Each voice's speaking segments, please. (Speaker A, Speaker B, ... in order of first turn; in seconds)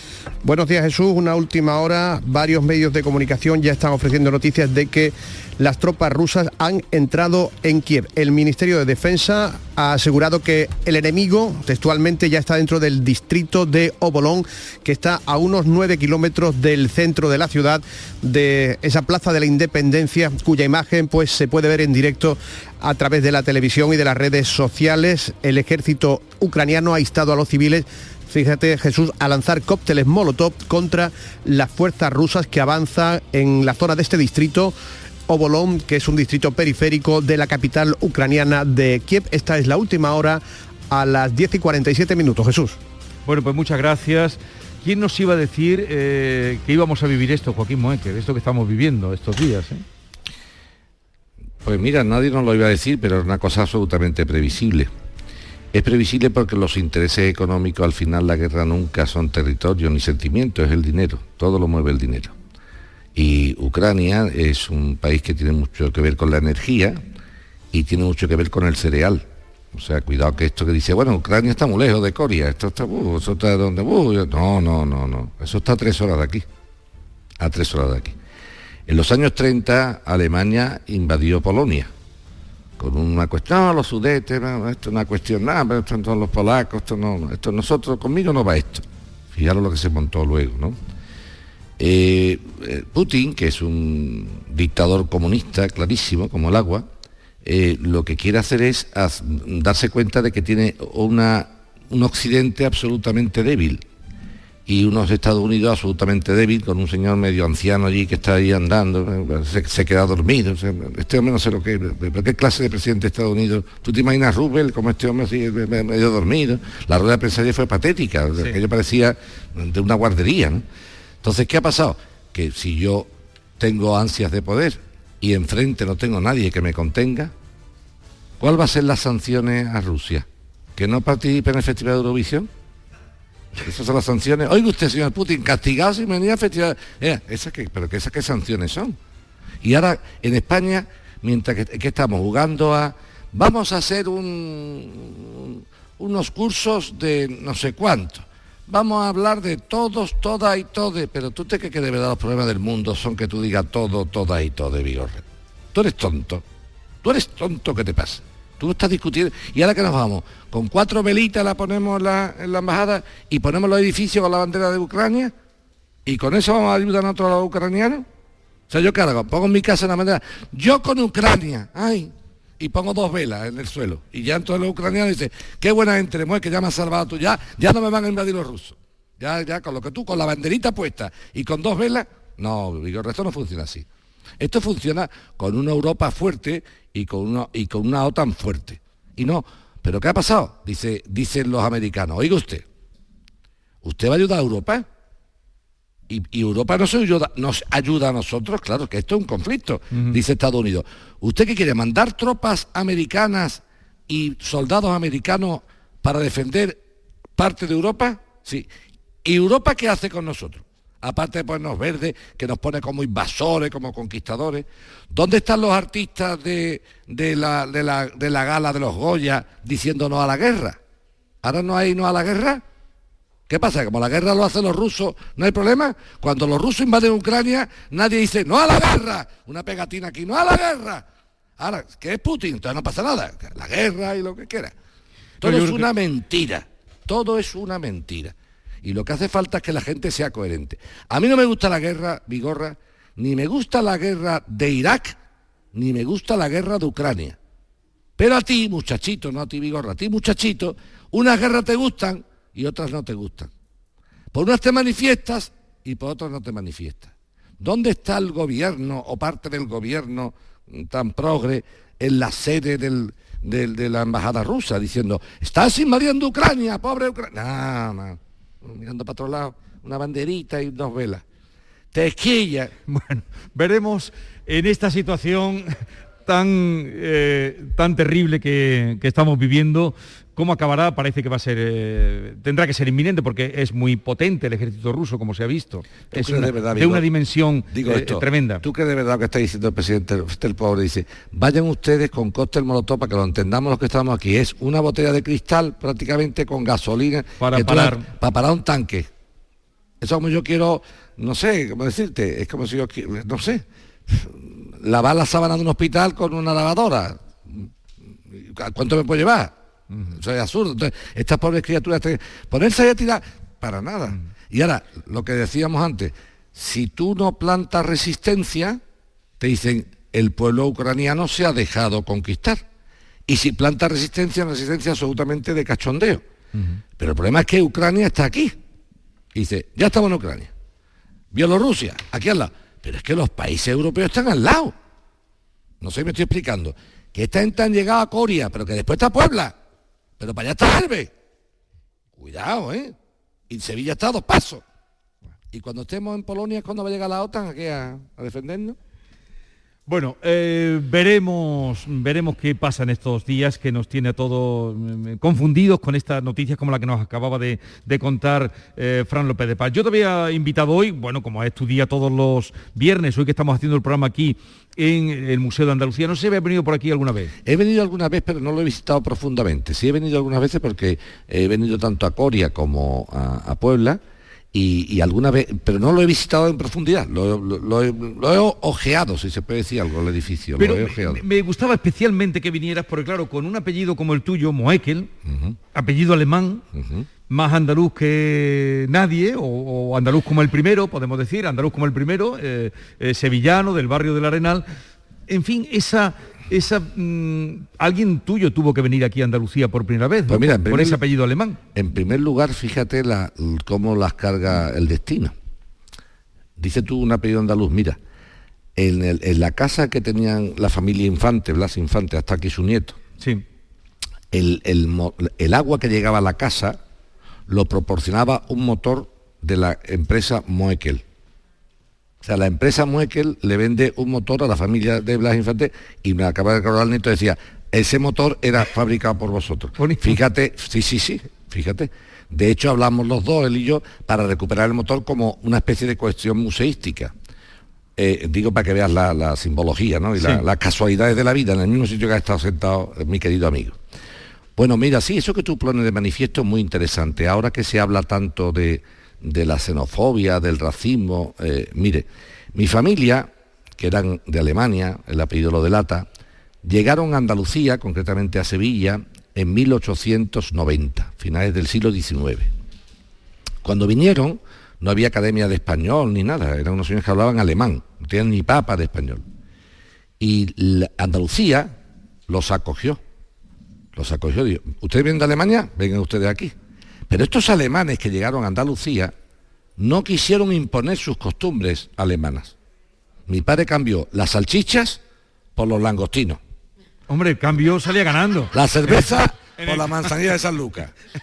Speaker A: 0.4-34.7, 35.3-42.8
Speaker B: 43.2-49.8, 199.9-200.2, 235.4-235.9, 272.9-288.6, 297.4-298.1, 309.9-310.2, 349.9-367.3, 380.6-385.1, 385.7-386.6, 387.3-394.6, 395.3-401.6, 429.8-430.2, 440.2-440.4, 487.1-490.1
Speaker C: 51.6-54.9, 55.7-62.3, 63.1-67.0, 67.7-76.4, 77.4-78.1, 78.9-81.9, 82.8-90.8, 91.8-96.9, 97.4-103.8, 104.7-120.6, 121.2-123.1, 123.6-127.3, 128.4-130.2, 130.8-132.5, 133.6-139.0, 139.6-155.2, 155.7-156.4, 157.0-165.3, 166.1-168.1, 168.7-183.8, 184.4-192.6, 193.8-194.8, 196.1-206.8, 207.4-208.7, 209.2-220.8, 221.4-222.6, 223.5-231.0, 231.6-234.7, 235.4-245.2, 245.7-247.4, 248.2-253.5, 254.3-271.2, 271.9-272.7, 286.1-287.0, 287.7-299.1, 300.0-307.7, 308.3-309.5, 310.1-318.8, 319.4-322.6, 323.3-326.2, 327.0-328.6, 329.3-330.5, 331.3-334.7, 335.8-339.5, 340.2-341.1, 342.2-342.9, 343.5-344.6, 345.5-348.8, 367.4-374.0, 374.5-381.2, 385.2-385.6, 386.7-387.1, 400.3-401.0, 401.7-405.3, 406.6-408.0, 408.8-413.0, 414.3-416.8, 417.5-421.0, 422.2-437.1, 438.0-443.8, 444.6-456.1, 456.6-462.5, 463.6-469.2, 470.2-471.8, 472.3-473.0, 473.9-476.5, 477.1-479.1, 479.8-482.5, 483.3-485.0, 485.6-486.4, 488.5-490.9